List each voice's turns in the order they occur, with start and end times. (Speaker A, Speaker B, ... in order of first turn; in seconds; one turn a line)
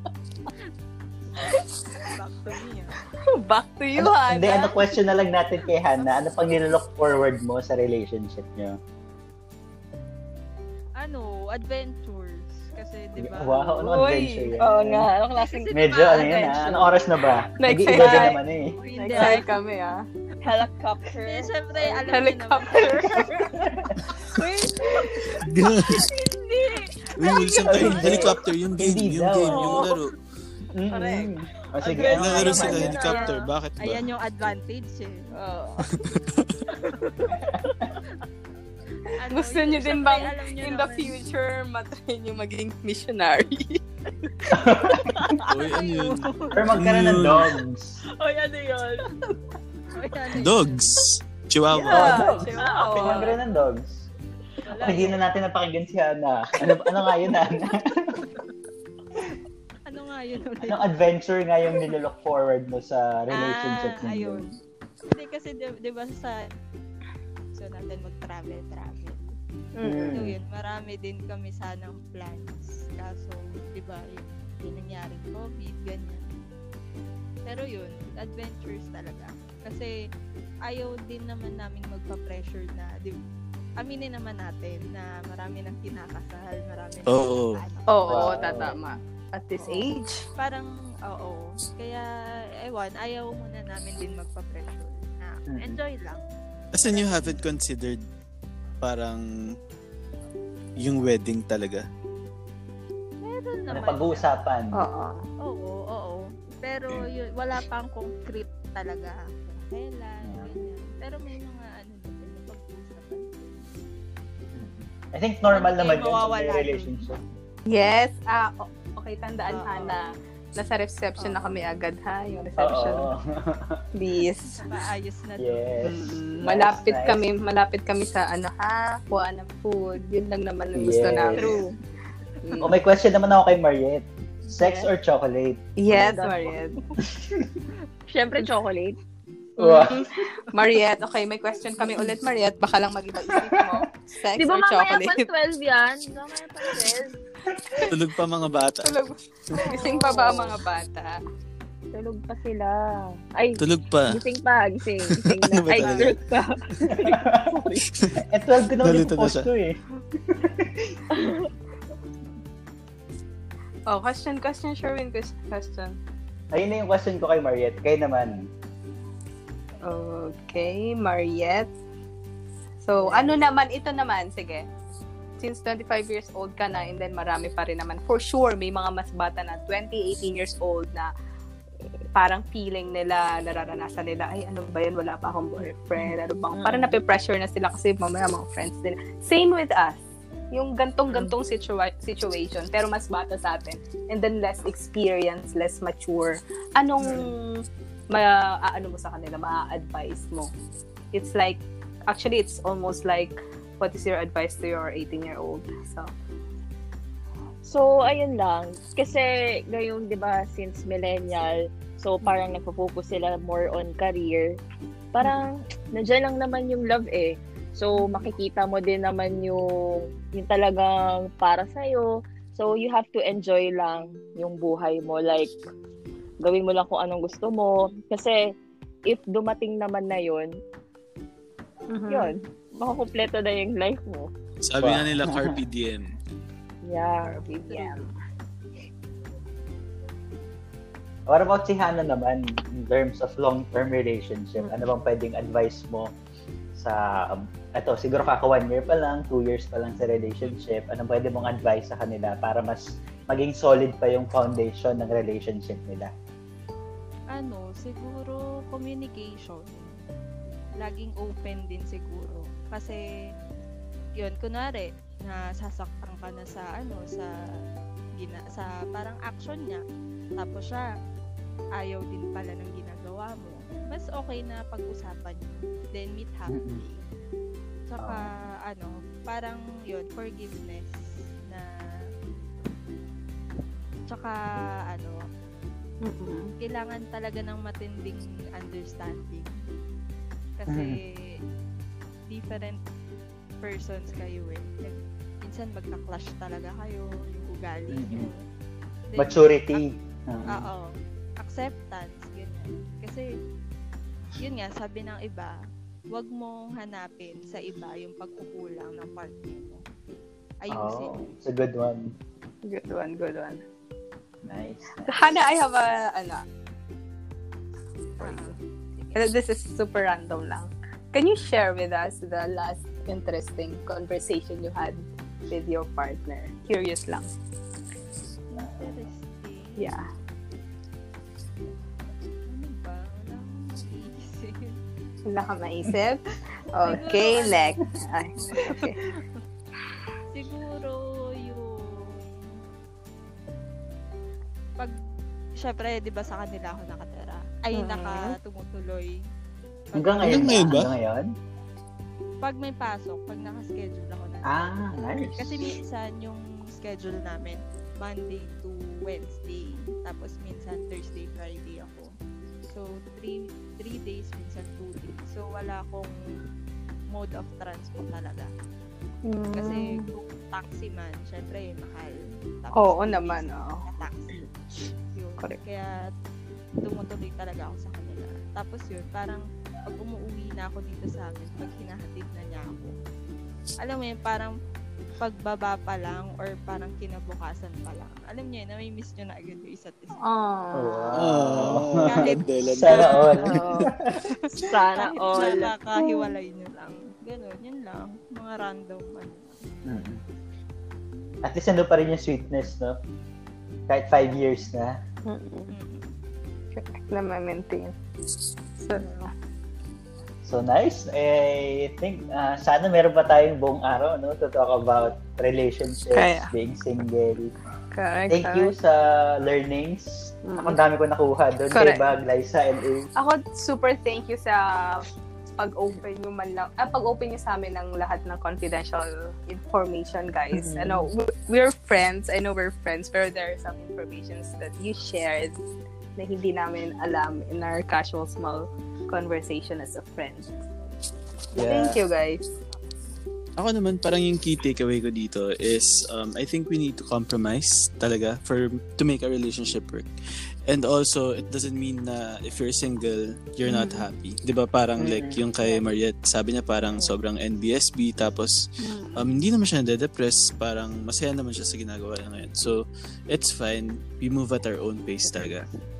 Speaker A: 1.4-2.1
Speaker B: 2.0-3.0
Speaker A: 3.3-4.9
Speaker C: 4.0-8.8
Speaker B: 11.0-13.8
Speaker C: 13.2-15.1
Speaker A: 13.8-14.6
Speaker D: 14.6-17.0
Speaker B: 15.4-16.9
Speaker C: 15.7-18.8
Speaker A: 17.6-20.1
Speaker B: 17.9-19.6
Speaker D: 17.9-18.3
Speaker D: 19.1-19.4
Speaker D: 20.4-22.0
Speaker B: 21.2-23.6
Speaker A: 22.1-23.6
Speaker C: 23.2-24.1
Speaker B: 24.2-25.4
Speaker D: 24.3-25.3
Speaker E: 25.3-26.1
Speaker D: 25.9-28.2
Speaker B: 26.6-28.1
Speaker E: 27.2-30.1
Speaker C: 27.6-29.8
Speaker D: 29.5-30.0
Speaker C: 30.7-33.0
Speaker D: 31.8-33.5
Speaker E: 32.1-34.0
Speaker B: 33.0-35.3
Speaker D: 35.4-35.8
Speaker E: 35.9-36.5
Speaker B: 37.0-37.4
Speaker C: 37.4-37.9
Speaker B: 39.0-41.1
Speaker A: 39.3-43.8
Speaker C: 44.5-45.3
Speaker D: 45.0-45.5
Speaker B: 45.5-46.7
Speaker E: 45.5-47.5
Speaker C: 46.5-48.0
Speaker D: 48.2-49.0
Speaker B: 49.9-50.9
Speaker E: 50.4-52.3
Speaker A: 51.7-53.4
Speaker C: 51.8-54.0
Speaker D: 52.5-53.4
Speaker B: 54.6-55.2
Speaker C: 54.8-58.3
Speaker B: 59.9-60.9
Speaker C: 60.6-64.5
Speaker B: 63.3-64.5
Speaker B: 65.1-66.5
Speaker B: 67.5-69.3
Speaker A: 69.8-70.3
Speaker C: 69.8-70.3
Speaker B: 70.1-76.2
Speaker B: 77.5-79.9
Speaker B: 80.7-83.2
Speaker B: 83.8-88.8
Speaker E: 87.1-87.6
Speaker A: 87.9-90.2
Speaker C: 88.1-88.8
Speaker B: 89.5-92.1
Speaker B: 92.6-96.2
Speaker C: 95.5-95.8
Speaker E: 96.7-98.0
Speaker B: 96.8-97.5
Speaker E: 98.8-99.5
Speaker E: 100.8-101.8
Speaker B: 103.2-104.3
Speaker C: 103.7-104.8
Speaker A: 104.7-105.3
Speaker B: 105.4-113.6
Speaker C: 110.2-110.5
Speaker C: 114.5-117.2
Speaker B: 115.5-117.0
Speaker A: 117.7-123.1
Speaker B: 119.5-120.0
Speaker B: 121.2-121.6
Speaker C: 122.6-123.8
Speaker A: 123.9-124.6
Speaker B: 124.5-125.8
Speaker C: 125.4-127.2
Speaker A: 125.8-131.6
Speaker C: 130.7-131.6
Speaker D: 131.3-131.7
Speaker A: 132.4-132.8
Speaker C: 132.6-135.6
Speaker A: 135.8-136.8
Speaker D: 135.9-136.6
Speaker C: 137.0-137.5
Speaker D: 138.1-139.0
Speaker C: 139.6-140.3
Speaker A: 139.6-145.3
Speaker C: 143.3-143.8
Speaker D: 144.4-147.1
Speaker C: 147.5-147.8
Speaker E: 147.8-148.9
Speaker A: 148.8-151.2
Speaker D: 149.6-150.6
Speaker D: 151.9-157.9
Speaker E: 153.6-154.2
Speaker E: 155.1-156.2
Speaker A: 155.8-156.1
Speaker C: 156.9-157.5
Speaker E: 157.9-158.2
Speaker C: 158.2-161.0
Speaker E: 158.8-159.5
Speaker D: 161.1-161.5
Speaker A: 163.9-166.0
Speaker C: 166.5-168.5
Speaker A: 169.9-171.7
Speaker A: 172.8-174.7
Speaker C: 173.1-173.3
Speaker A: 175.4-181.1
Speaker A: 182.1-200.5
Speaker D: 186.5-187.0
Speaker A: 201.1-206.1
Speaker D: 207.6-214.6
Speaker D: 215.1-225.5
Speaker A: 218.0-218.3
Speaker D: 226.4-228.5
Speaker D: 229.1-230.5
Speaker A: 231.9-232.3
Speaker D: 232.1-234.3
Speaker E: 234.6-236.1
Speaker C: 234.8-235.5
Speaker D: 236.8-238.0
Speaker A: 237.2-238.1
Speaker C: 241.3-246.1
Speaker A: 244.6-244.9
Speaker C: 246.7-256.1
Speaker B: 257.3-260.0
Speaker B: 260.8-263.0
Speaker B: 264.2-267.3
Speaker B: 268.2-269.8
Speaker B: 270.4-270.9
Speaker B: 271.8-277.0
Speaker C: 276.5-276.8
Speaker B: 277.9-281.7
Speaker C: 278.0-278.3
Speaker B: 284.1-285.2
Speaker A: 286.0-286.5
Speaker B: 286.6-289.5
Speaker B: 290.6-291.4
Speaker C: 290.7-291.0
Speaker B: 292.3-292.8
Speaker B: 293.6-298.4
Speaker C: 297.9-298.3
Speaker B: 299.1-299.9
Speaker C: 299.2-300.7
Speaker B: 300.5-303.3
Speaker B: 304.4-305.5
Speaker B: 306.1-309.8
Speaker B: 310.6-311.2
Speaker C: 310.7-312.2
Speaker A: 312.6-313.6
Speaker C: 314.4-315.3
Speaker A: 315.0-316.4
Speaker B: 318.2-319.3
Speaker A: 318.2-318.5
Speaker A: 319.1-327.3
Speaker B: 328.5-330.0
Speaker A: 329.8-330.1
Speaker B: 332.5-334.8
Speaker A: 335.3-339.1
Speaker B: 336.8-337.8
Speaker B: 338.4-339.2
Speaker B: 340.3-342.5
Speaker B: 345.6-349.2
Speaker A: 347.7-348.4
Speaker B: 349.9-350.8
Speaker C: 349.9-351.3
Speaker E: 350.2-350.9
Speaker B: 352.4-362.1
Speaker C: 354.4-355.7
Speaker B: 362.7-366.1
Speaker B: 367.1-368.5
Speaker A: 369.3-370.2
Speaker B: 369.5-374.4
Speaker A: 372.7-373.9
Speaker B: 375.1-376.0
Speaker B: 376.8-382.9
Speaker B: 383.8-384.5
Speaker B: 385.2-390.2
Speaker A: 390.2-391.1
Speaker C: 390.7-394.3
Speaker E: 391.1-393.7
Speaker B: 391.9-393.4
Speaker D: 393.4-393.9
Speaker D: 394.6-395.7
Speaker B: 394.9-399.6
Speaker A: 395.9-396.3
Speaker C: 399.9-400.2
Speaker C: 401.4-403.0
Speaker C: 403.9-405.0
Speaker A: 405.3-405.8
Speaker B: 405.7-406.2
Speaker A: 406.7-407.9
Speaker A: 408.8-409.3
Speaker C: 410.4-417.5
Speaker A: 416.1-416.5
Speaker A: 417.9-418.7
Speaker C: 418.3-423.1
Speaker A: 420.4-420.8
Speaker A: 421.7-422.1
Speaker A: 423.2-425.1
Speaker A: 425.6-435.6
Speaker C: 430.5-431.1
Speaker A: 436.2-440.7
Speaker C: 441.6-442.0
Speaker A: 441.6-442.4
Speaker E: 443.6-450.1
Speaker E: 450.7-458.6
Speaker A: 453.6-454.1
Speaker C: 455.0-455.4
Speaker A: 458.8-459.3
Speaker E: 459.1-465.7